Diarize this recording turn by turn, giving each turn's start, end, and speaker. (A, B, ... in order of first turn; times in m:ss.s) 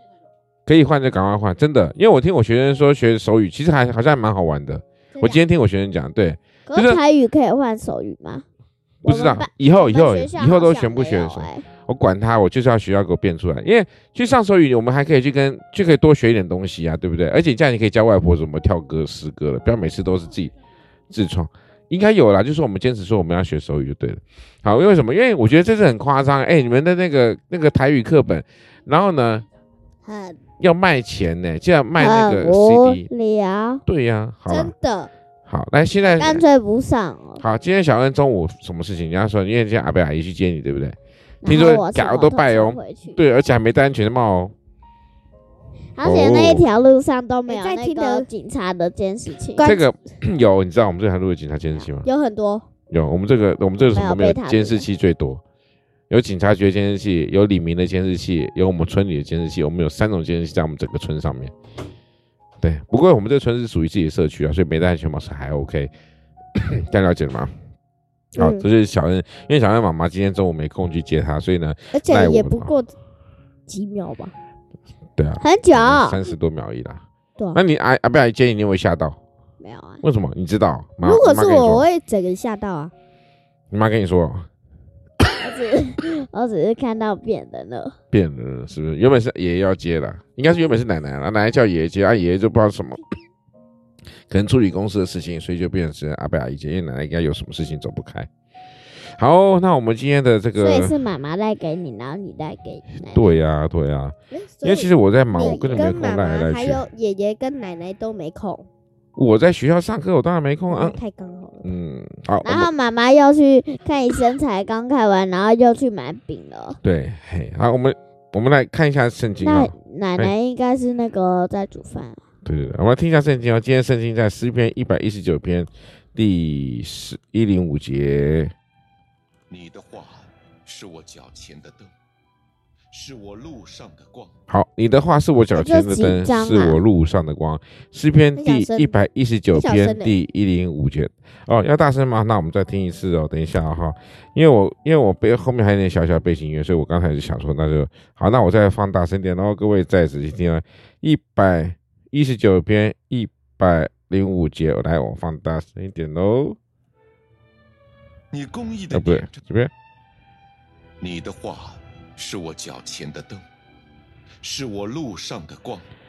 0:00.7-0:07.0 A
0:05.1-0:05.4 B
0:06.7-0:08.4 C
0:09.0-0:11.7 C
0:09.0-0:20.5 A
0:21.1-0:29.5 A
0:30.0-0:30.4 B
0:30.6-0:33.1 A
0:32.0-0:33.8 C
0:33.9-0:34.7 A
0:34.5-0:35.1 B
0:35.5-0:36.4 A
0:36.1-0:37.4 C
0:37.4-0:44.5 A
0:41.4-0:43.2 C
0:46.0-0:49.8 C
0:46.0-0:46.7 A
0:47.5-0:48.3 B
0:49.6-0:49.9 B
0:49.6-0:52.1 A
0:52.0-0:52.7 B
0:52.9-0:55.4 A
0:53.9-0:54.9 C
0:56.1-1:01.5 A
1:02.6-1:05.9 A
1:06.6-1:07.5 A
1:08.4-1:12.7 A
1:08.4-1:08.6 B
1:11.9-1:12.9 B
1:13.7-1:14.3 B
1:15.2-1:17.0 A
1:15.4-1:16.2 C
1:17.5-1:19.2 A
1:19.6-1:20.0 C
1:20.0-1:21.8 A
1:21.0-1:22.9 B
1:23.7-1:24.5 A
1:25.4-1:28.0 C
1:28.1-1:33.0 A
1:34.3-1:38.3 A
1:39.2-1:41.0 A
1:40.6-1:43.4 C
1:43.0-1:46.8 A
1:44.3-1:48.7 B
1:45.4-1:45.9 C
1:49.2-1:51.0 A
1:50.7-1:51.7 B
1:51.6-1:52.7 A
1:52.4-1:56.8 C
1:56.8-2:00.3 A
1:59.4-2:02.2 C
2:02.4-2:08.5 A
2:09.5-2:11.9 D
2:12.9-2:14.3 D
2:14.5-2:36.6 A
2:15.5-2:16.8 C
2:18.4-2:19.0 B
2:19.5-2:20.2 B
2:38.3-2:39.4 D
2:38.9-2:39.7 A
2:41.0-2:43.5 D
2:44.4-2:45.9 D